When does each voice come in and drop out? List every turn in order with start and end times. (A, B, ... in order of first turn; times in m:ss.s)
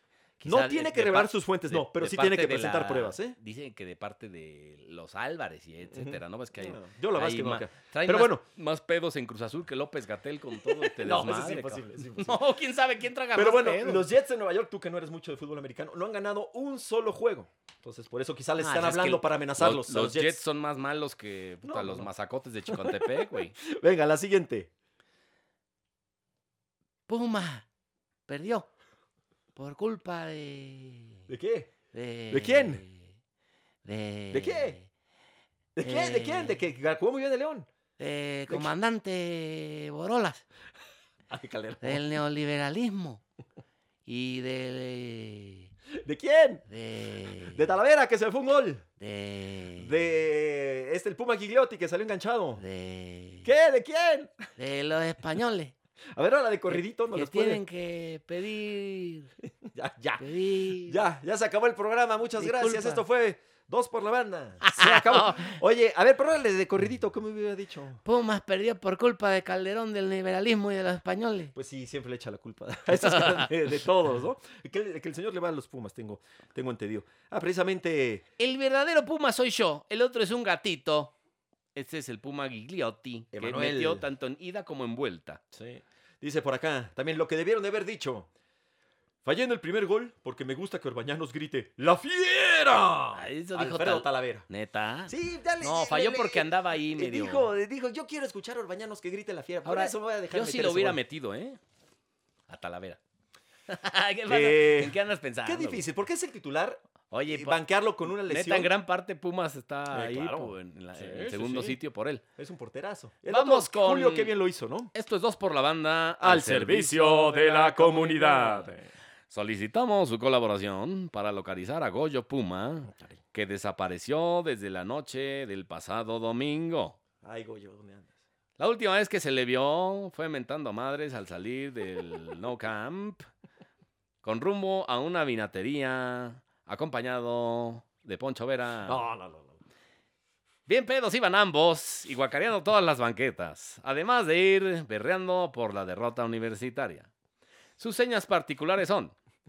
0:00.4-0:14.1 A
0:00.4-0:03.4 B
0:05.9-0:08.4 B
0:10.8-0:12.4 B
0:13.3-0:20.4 B
0:18.6-0:23.5 A
0:21.6-0:22.1 B
0:22.7-0:24.7 B
0:27.1-0:27.6 A
0:28.3-0:28.7 A
0:29.5-0:31.2 A
0:31.3-0:31.7 B
0:31.9-0:33.1 A
0:32.3-0:32.8 B
0:33.8-0:34.8 A
0:34.3-0:34.8 B
0:35.8-0:37.7 B
0:35.8-0:36.6 A
0:38.0-0:40.4 A
0:41.3-0:42.0 B
0:41.8-0:43.2 A
0:44.0-0:45.7 A
0:45.9-0:46.6 B
0:46.7-0:47.6 A
0:47.4-0:48.9 B
0:49.0-0:49.9 A
0:49.7-0:52.6 B
0:52.6-0:53.5 A
0:53.4-0:54.5 B
0:54.6-0:55.7 A
0:56.1-0:57.6 B
0:56.7-0:59.3 A
0:59.4-1:08.0 B
1:00.2-1:01.0 A
1:02.4-1:03.0 A
1:04.6-1:05.6 A
1:08.0-1:11.5 A
1:11.5-1:18.2 B
1:12.9-1:13.5 A
1:18.4-1:21.1 A
1:21.7-1:25.4 A
1:23.3-1:24.0 B
1:25.5-1:28.3 B
1:29.2-1:34.5 B
1:33.1-1:37.5 A
1:35.1-1:41.0 B
1:39.6-1:41.6 A
1:42.5-1:43.0 A
1:43.7-1:45.8 A
1:44.3-1:48.7 B
1:47.1-1:52.2 A
1:49.9-1:51.8 B
1:52.4-1:54.9 B
1:53.3-1:54.3 A
1:54.9-1:58.7 A
1:56.2-1:58.9 B
1:59.3-2:07.0 A
2:02.9-2:03.2 B
2:07.2-2:08.1 B
2:08.6-2:13.3 A
2:14.2-2:19.0 A
2:18.8-2:19.6 B
2:20.7-2:27.1 A
2:27.8-2:29.1 A